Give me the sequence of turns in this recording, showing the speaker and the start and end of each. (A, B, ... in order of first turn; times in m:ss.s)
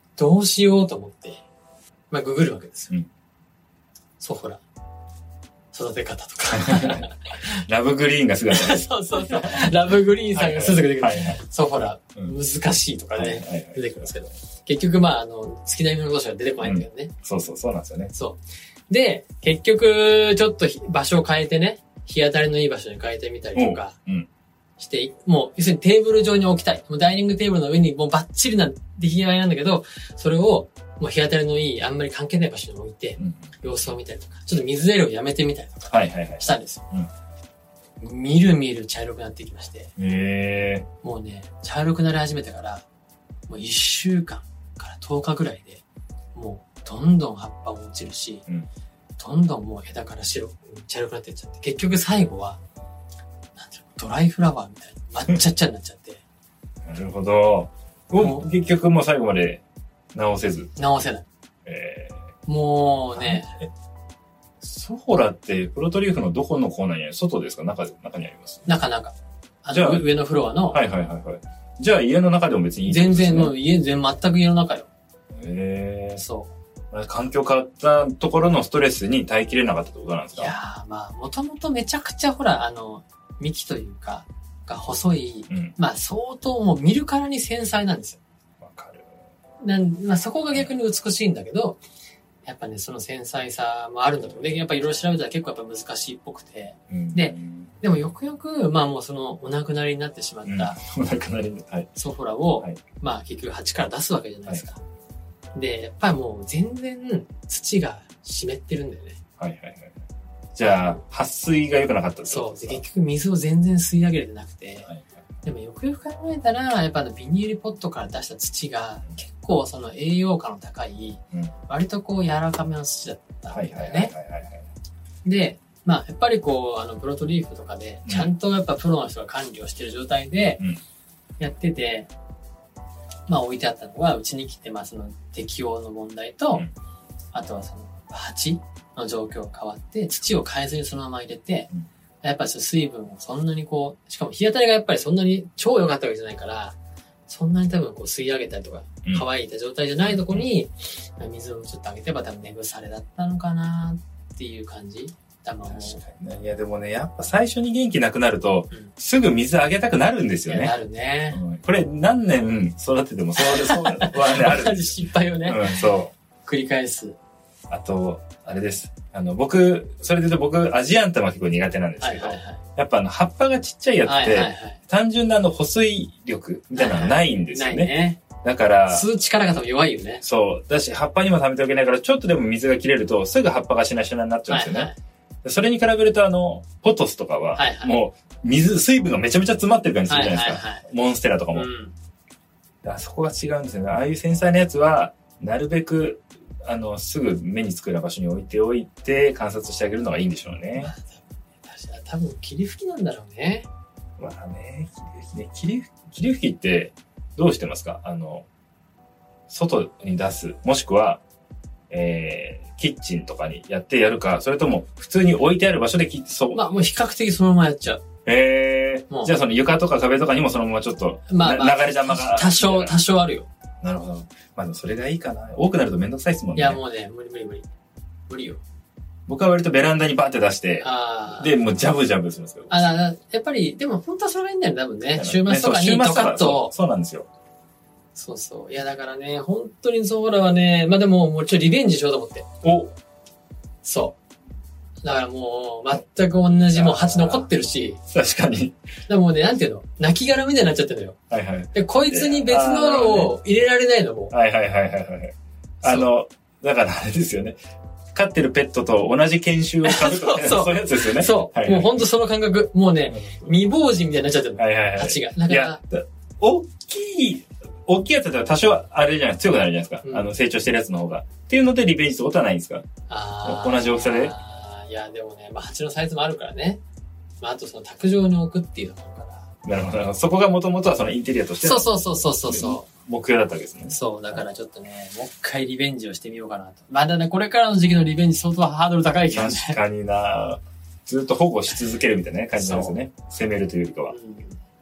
0:00.2-0:01.4 A
0:02.1-0:02.9 A
0:04.2-0:04.6 A
0:05.7-0:07.4 A
0:06.5-0:09.7 B
0:08.5-0:17.1 A
0:10.4-0:11.4 B
0:13.2-0:14.1 B
0:16.6-0:18.1 B
0:18.1-0:23.9 A
0:23.6-0:24.3 B
0:24.8-0:36.8 A
0:33.2-0:33.5 B
0:35.9-0:37.1 B
0:38.0-0:39.9 A
0:40.0-0:40.9 B
0:41.0-0:42.8 A
0:43.5-0:45.8 A
0:46.4-0:48.4 A
0:49.2-0:52.6 A
0:53.6-0:56.2 A
0:56.8-1:00.7 B
0:58.2-0:58.4 A
1:00.8-1:01.2 A
1:01.7-1:02.2 B
1:02.5-1:03.6 A
1:03.2-1:03.4 B
1:04.6-1:08.7 B
1:08.7-1:10.8 A
1:09.7-1:10.1 B
1:10.7-1:13.5 B
1:12.9-1:14.9 A
1:15.3-1:16.2 B
1:16.2-1:16.5 A
1:16.9-1:20.6 B
1:20.4-1:28.2 A
1:25.5-1:25.7 B
1:28.6-1:29.1 B
1:29.6-1:31.8 A
1:32.4-1:40.8 A
1:36.9-1:37.8 B
1:40.4-1:41.9 B
1:41.9-1:44.8 A
1:45.5-1:49.2 A
1:49.4-1:49.9 B
1:50.6-1:52.8 B
1:50.6-1:51.0 A
1:52.3-1:54.9 A
1:55.4-2:04.1 A
2:03.5-2:04.7 B
2:05.2-2:10.6 A
2:08.1-2:08.3 B
2:11.4-2:12.1 A
2:13.3-2:16.7 A
2:17.3-2:21.7 A
2:22.2-2:26.8 A
2:27.3-2:36.0 A
2:30.1-2:30.4 B
2:35.7-2:40.7 B
2:40.5-2:41.4 A
2:41.3-2:44.9 B
2:43.4-2:45.8 A
2:45.4-2:46.1 B
2:46.4-2:47.2 A
2:47.7-2:59.1 B
2:52.0-2:52.6 A
2:54.0-2:54.8 A
2:56.7-2:58.2 A
2:58.9-3:00.2 A
3:00.2-3:04.9 B
3:04.5-3:05.0 A
3:05.4-3:11.7 B
3:07.6-3:08.0 A
3:10.1-3:10.9 A
3:11.5-3:11.9 A
3:12.8-3:20.9 B
3:20.8-3:23.7 A
3:24.2-3:28.5 B
3:29.5-3:31.2 B
3:31.9-3:36.9 B
3:36.5-3:38.0 A
3:38.2-3:43.0 B
3:39.1-3:39.4 A
3:41.3-3:43.5 A
3:43.8-3:46.8 B
3:46.6-3:47.7 A
3:48.3-3:48.6 A
3:49.3-3:52.8 B
3:50.8-3:51.5 A
3:52.7-3:56.7 A
3:55.1-3:57.3 B
3:58.1-4:02.5 A
4:02.6-4:02.9 B
4:03.8-4:04.2 A
4:05.0-4:08.0 A
4:06.7-4:07.5 B
4:08.1-4:08.8 B
4:09.1-4:11.2 A
4:11.3-4:13.4 B
4:11.7-4:14.3 A
4:14.3-4:17.6 B
4:18.1-4:22.1 B
4:19.8-4:25.8 A
4:23.1-4:23.5 B
4:24.6-4:32.8 B
4:30.0-4:30.3 A
4:33.1-4:36.8 A
4:33.4-4:34.4 B
4:37.4-4:39.5 A
4:39.6-4:44.4 B
4:41.6-4:42.9 A
4:43.9-4:49.8 A
4:49.3-4:54.1 B
4:52.6-4:53.0 A
4:54.1-4:54.6 A